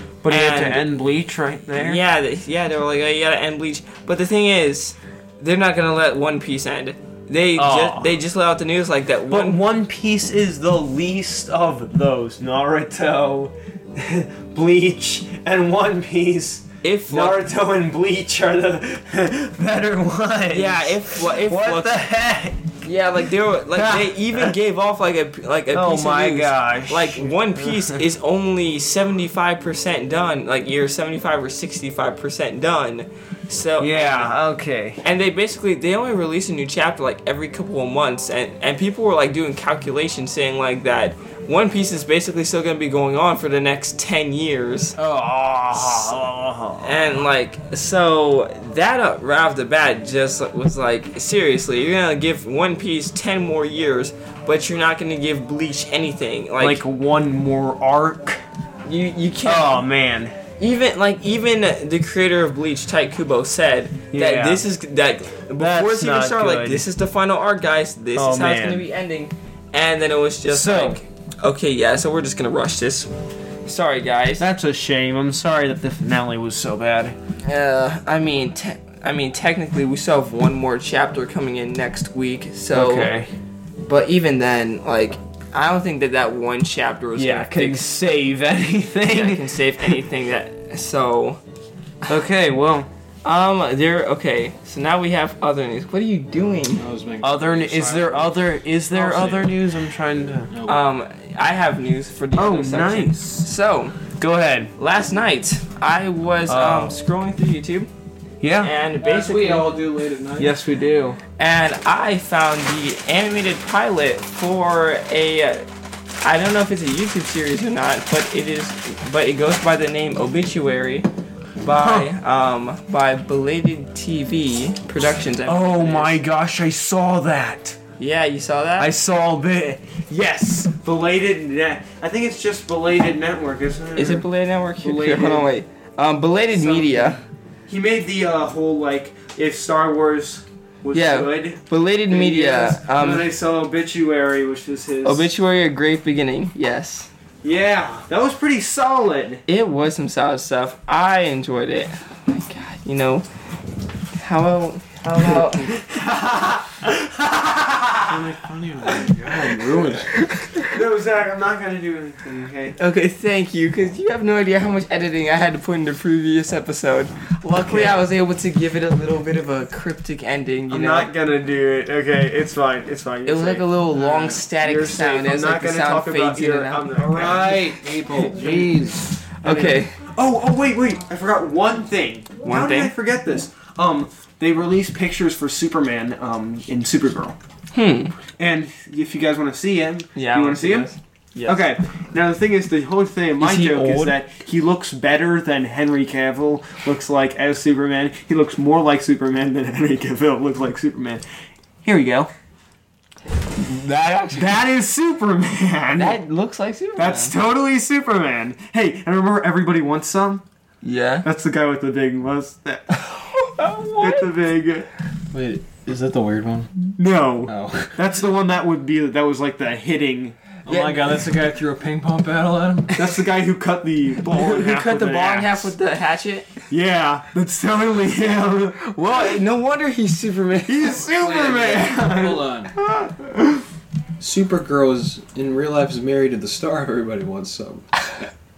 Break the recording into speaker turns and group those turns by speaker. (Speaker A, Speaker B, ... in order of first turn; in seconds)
Speaker A: 0.2-2.0, 7.6-8.1, 9.3-22.6, 23.7-24.5, 25.7-28.0, 33.8-35.0, 45.0-47.0, 56.6-58.4, 59.4-60.3, 64.1-64.6, 65.6-66.8, 68.2-68.9, 70.5-71.0, 74.4-77.1, 82.7-83.3, 87.2-89.9, 92.1-92.9, 97.2-100.5, 102.3-103.5, 104.2-104.7, 106.5-106.9, 108.4-108.7, 110.4-111.2, 121.8-122.1, 125.5-127.8, 128.8-134.2, 134.8-135.5, 136.5-145.3, 147.4-149.4, 155.2-158.3, 158.8-160.0, 160.6-162.8, 167.6-168.0, 170.7-178.8, 179.4-187.4, 188.4-190.9, 191.4-201.2, 201.8-202.3, 204.3-206.2, 207.0-210.4, 211.2-213.0, 214.0-214.9, 216.9-220.4, 222.9-225.7, 226.7-228.9, 230.7-233.6
Speaker B: 0.3-0.8, 1.8-9.6, 16.8-17.4, 20.5-22.0, 22.8-34.3, 35.0-45.0, 45.7-46.2, 46.8-56.8, 58.9-59.8, 60.6-73.1, 73.7-74.5, 77.4-83.1, 83.8-87.9, 89.1-91.4, 93.2-96.8, 100.6-104.0, 104.8-107.9, 108.6-109.7, 111.4-115.7, 116.2-121.1, 121.6-126.2, 128.0-128.9, 133.9-137.2, 140.9-143.3, 145.0-147.1, 149.5-153.2, 154.2-155.8, 160.2-160.6, 162.8-171.1, 173.2-176.9, 179.4-179.9, 182.4-182.9, 187.7-188.1, 190.2-191.6, 193.4-194.2, 203.7-204.5, 206.0-207.3, 210.8-211.3, 213.0-214.3, 220.7-221.1, 224.2-226.5, 228.8-231.0
Speaker C: 96.8-98.4, 98.9-99.5, 100.5-100.8, 109.0-110.6, 158.1-160.2, 176.9-179.1, 215.3-216.7, 217.4-218.0, 220.7-223.0, 231.2-232.7, 234.2-237.8